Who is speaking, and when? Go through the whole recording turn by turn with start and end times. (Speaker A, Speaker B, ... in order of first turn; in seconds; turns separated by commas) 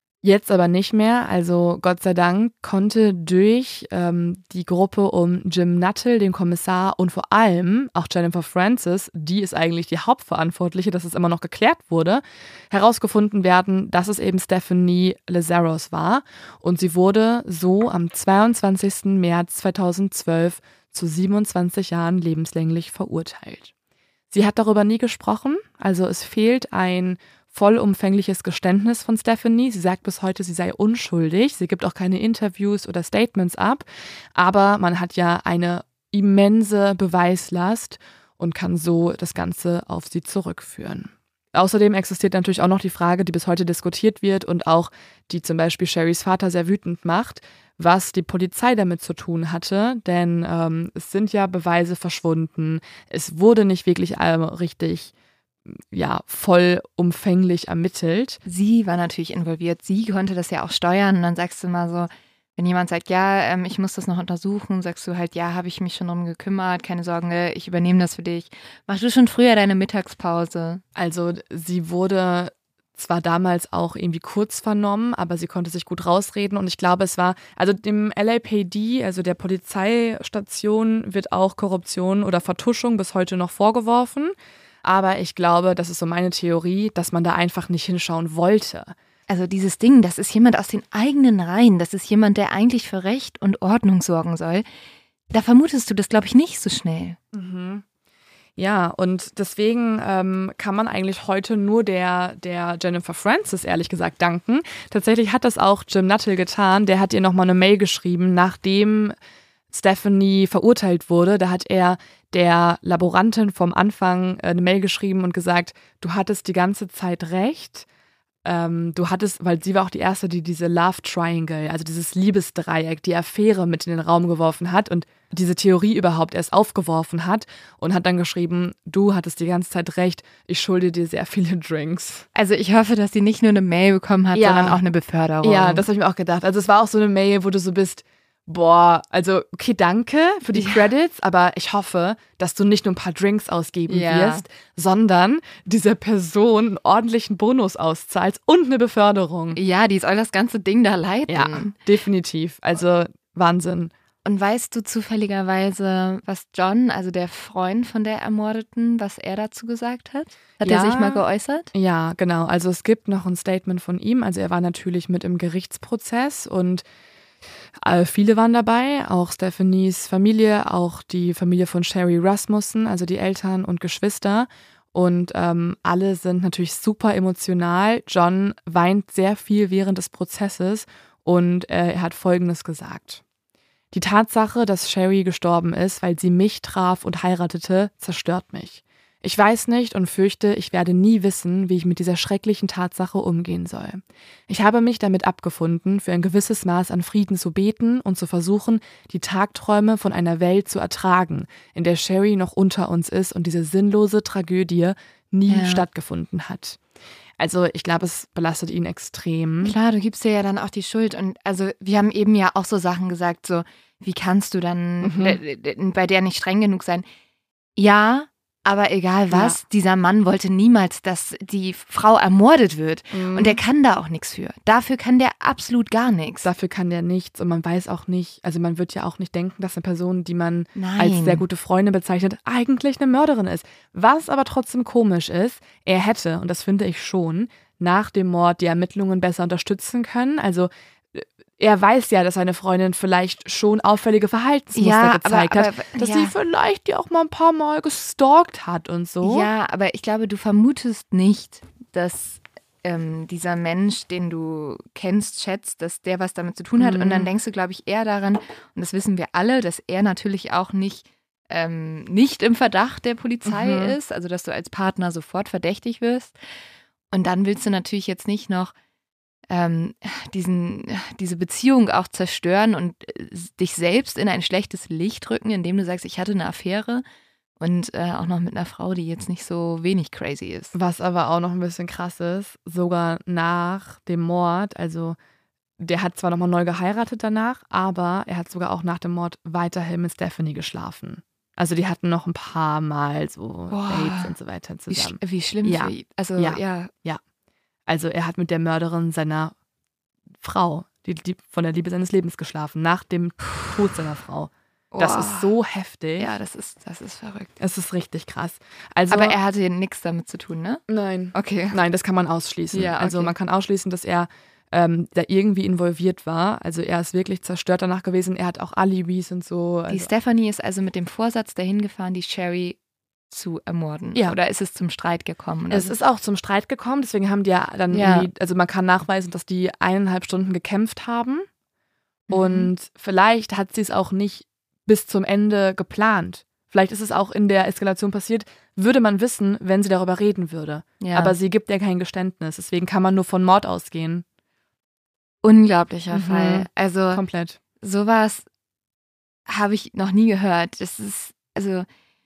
Speaker A: 0.2-23.7, Speaker A: 24.3-33.9, Speaker A: 34.4-55.1, Speaker A: 55.7-58.4, Speaker B: 58.5-70.8, Speaker A: 71.0-88.9, Speaker B: 89.3-94.7, Speaker B: 95.3-97.2, Speaker A: 97.3-97.8, Speaker A: 98.6-109.2, Speaker A: 109.7-117.9, Speaker A: 118.5-132.3, Speaker B: 132.3-135.8, Speaker A: 134.3-134.8, Speaker A: 135.4-149.6, Speaker B: 140.5-140.9, Speaker B: 143.9-144.4, Speaker B: 149.5-151.7, Speaker A: 151.3-153.9, Speaker B: 154.2-161.7, Speaker A: 160.6-166.8, Speaker A: 167.8-183.2, Speaker A: 183.9-206.8, Speaker B: 205.5-205.8, Speaker A: 207.4-209.7, Speaker B: 209.6-217.1, Speaker A: 215.0-215.4, Speaker B: 217.8-226.5, Speaker A: 219.3-219.6, Speaker A: 223.1-223.6, Speaker A: 226.4-249.5, Speaker B: 230.7-231.4, Speaker B: 244.7-246.3, Speaker B: 249.2-266.4, Speaker A: 256.8-257.3, Speaker A: 263.5-263.9, Speaker B: 267.1-268.7, Speaker B: 269.5-277.0, Speaker B: 277.6-280.7, Speaker A: 280.7-285.2, Speaker A: 285.8-297.2, Speaker B: 293.7-294.4, Speaker B: 294.9-296.9, Speaker A: 297.9-299.5, Speaker A: 300.4-306.3, Speaker B: 304.9-305.5, Speaker B: 306.2-307.5, Speaker A: 307.6-309.4, Speaker B: 309.1-310.8, Speaker A: 310.9-320.1, Speaker B: 311.3-311.8, Speaker B: 312.7-313.3, Speaker B: 319.9-322.8, Speaker B: 323.3-325.9, Speaker A: 325.7-331.5, Speaker B: 327.9-328.3, Speaker B: 332.3-332.7, Speaker A: 332.3-344.2, Speaker B: 341.0-341.4, Speaker B: 345.4-347.2, Speaker A: 346.1-347.6, Speaker B: 347.8-348.4, Speaker B: 349.5-351.9